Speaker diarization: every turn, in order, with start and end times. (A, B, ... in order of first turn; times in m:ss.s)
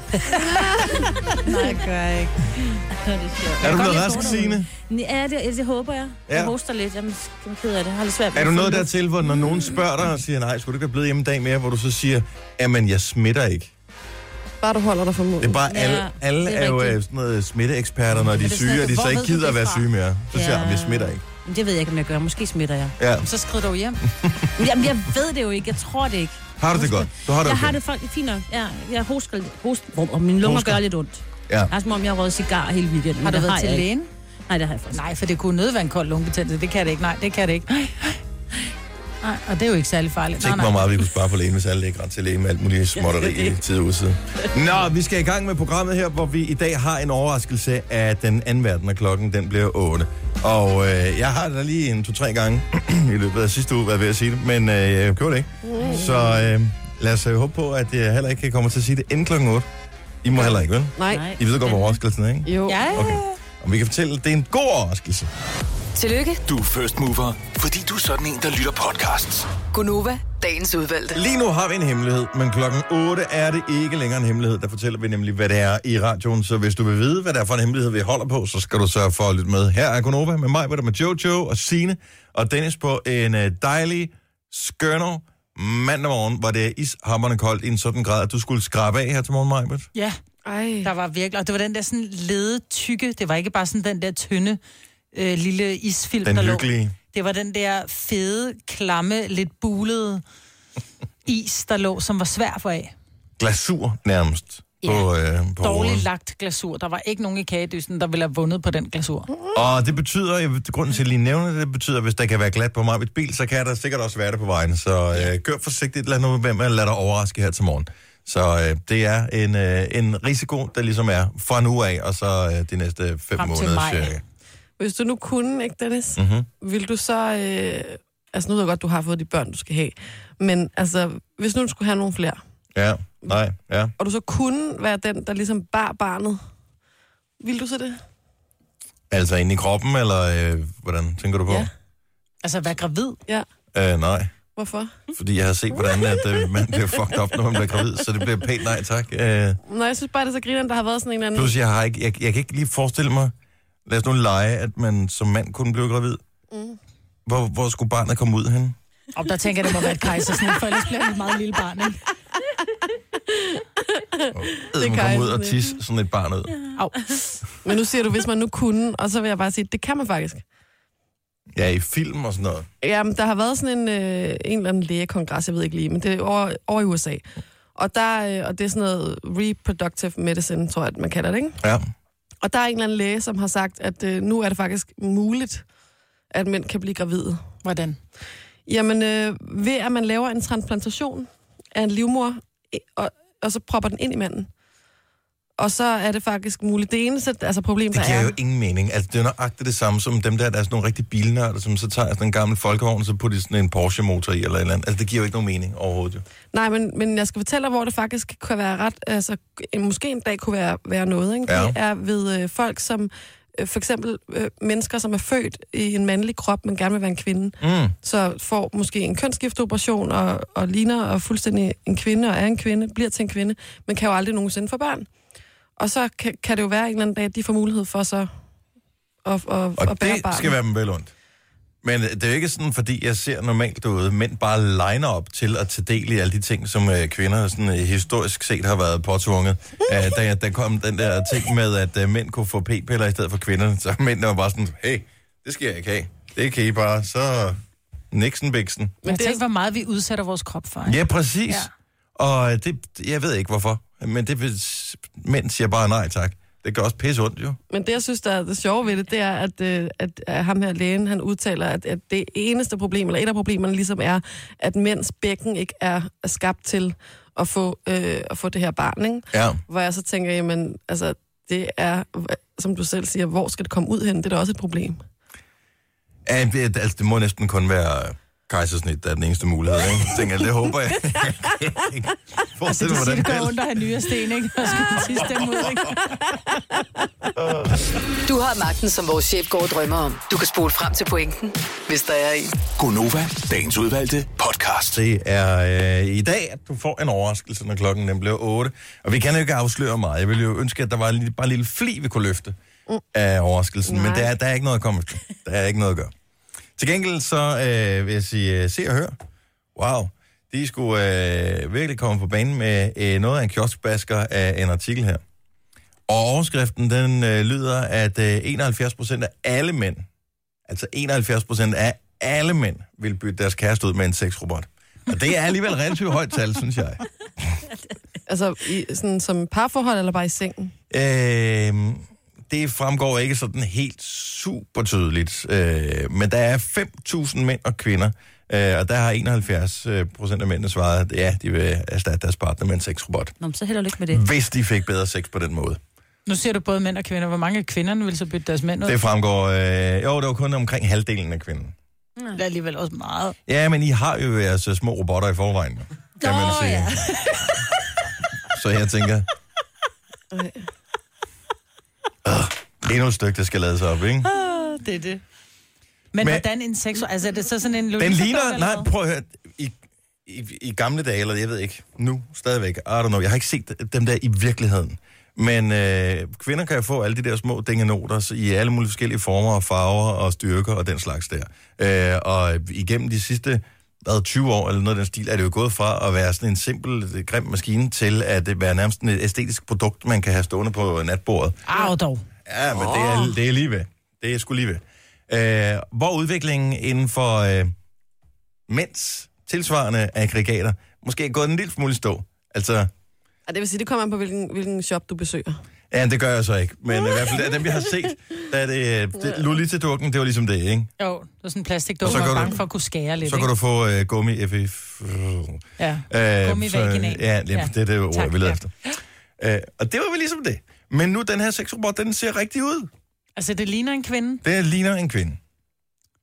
0:00.2-0:02.6 A
0:02.6-0:09.5 B
0:03.6-0:04.7 C
0:03.6-0:04.4 A
0:06.3-0:06.5 C
0:08.3-0:13.7 C
0:14.6-0:15.6 D
0:15.4-0:21.2 C
0:15.7-0:17.0 B
0:18.2-0:19.9 A
0:20.3-0:23.0 B
0:23.0-0:23.3 C
0:23.2-0:24.0 A
0:24.2-0:24.5 C
0:24.6-0:26.5 B
0:26.6-0:27.8 C
0:27.3-0:33.9 B
0:30.4-0:30.8 C
0:33.2-0:34.1 A
0:34.5-0:35.0 B
0:34.9-0:38.2 A
0:39.2-0:40.9 A
0:40.4-0:59.7 C
0:43.0-0:43.6 B
0:55.6-0:56.4 D
1:00.2-1:05.3 C
1:00.3-1:01.3 D
1:01.1-1:02.0 B
1:02.4-1:03.1 D
1:02.7-1:03.4 A
1:06.0-1:06.4 E
1:06.4-1:09.5 F
1:09.7-1:11.2 E
1:11.1-1:29.9 C
1:30.4-1:30.9 D
1:30.8-1:34.6 A
1:35.1-1:40.2 A
1:36.2-1:36.9 C
1:41.2-1:42.9 A
1:43.4-1:46.0 C
1:44.8-1:45.1 A
1:45.6-1:49.3 A
1:49.5-2:04.2 C
2:03.4-2:04.2 A
2:04.8-2:12.4 D
2:06.2-2:06.5 C
2:12.7-2:13.9 C
2:14.0-2:16.4 D
2:17.4-2:18.0 D
2:19.1-2:21.7 C
2:22.4-2:23.2 A
2:23.7-2:24.3 C
2:24.6-2:25.0 D
2:25.1-2:29.6 C
2:25.9-2:26.3 D
2:29.7-2:31.5 D
2:31.3-2:33.3 C
2:33.8-2:36.2 C
2:36.5-2:36.8 D
2:37.2-2:38.8 C
2:39.1-2:42.0 A
2:43.2-2:45.7 D
2:44.3-2:46.6 C
2:46.8-2:47.1 A
2:47.6-2:50.4 D
2:51.5-2:52.7 C
2:52.8-2:57.2 D
2:57.7-3:01.6 D
3:01.6-3:01.8 C
3:02.4-3:05.6 D
3:06.3-3:07.4 D
3:07.6-3:08.0 A
3:08.7-3:14.5 D
3:15.6-3:18.3 D
3:17.9-3:26.2 C
3:26.5-3:45.1 D
3:31.5-3:31.8 C
3:37.6-3:37.9 C
3:45.8-3:48.3 D
3:49.2-3:50.5 D
3:49.8-3:51.1 C
3:51.8-4:07.6 C
4:08.1-4:09.0 C
4:09.0-4:09.4 D
4:09.0-4:11.7 A
4:10.8-4:17.6 C
4:17.7-4:35.0 D
4:29.3-4:29.6 C
4:36.2-4:43.6 C
4:42.6-4:46.2 A
4:47.4-4:47.8 C
4:48.2-4:52.6 E
4:52.6-4:55.0 F
4:54.9-5:02.6 C
5:03.1-5:06.1 C
5:03.9-5:04.3 D
5:06.8-5:09.1 C
5:09.8-5:15.2 C
5:16.1-5:20.0 C
5:20.7-5:27.6 C
5:28.3-5:30.7 D
5:30.9-5:43.3 C
5:43.4-5:44.2 B
5:44.1-5:45.8 C
5:46.2-5:49.0 A
5:48.8-5:51.7 C
5:52.3-5:53.4 A
5:53.5-5:57.1 C
5:56.2-5:56.9 B
5:56.2-5:57.5 A
5:58.4-5:59.3 C
6:00.3-6:00.6 D
6:02.2-6:04.3 C
6:04.2-6:05.2 A
6:06.1-6:08.9 A
6:08.0-6:31.6 C
6:31.7-6:32.2 A
6:32.4-6:37.7 C
6:38.7-6:42.9 C
6:43.5-6:45.6 D
6:45.9-6:50.9 C
6:47.0-6:47.8 D
6:51.0-6:53.5 A
6:52.0-6:52.6 C
6:53.2-6:58.7 C
6:55.8-6:58.6 A
6:59.4-7:02.9 C
7:03.4-7:04.4 A
7:04.4-7:05.4 C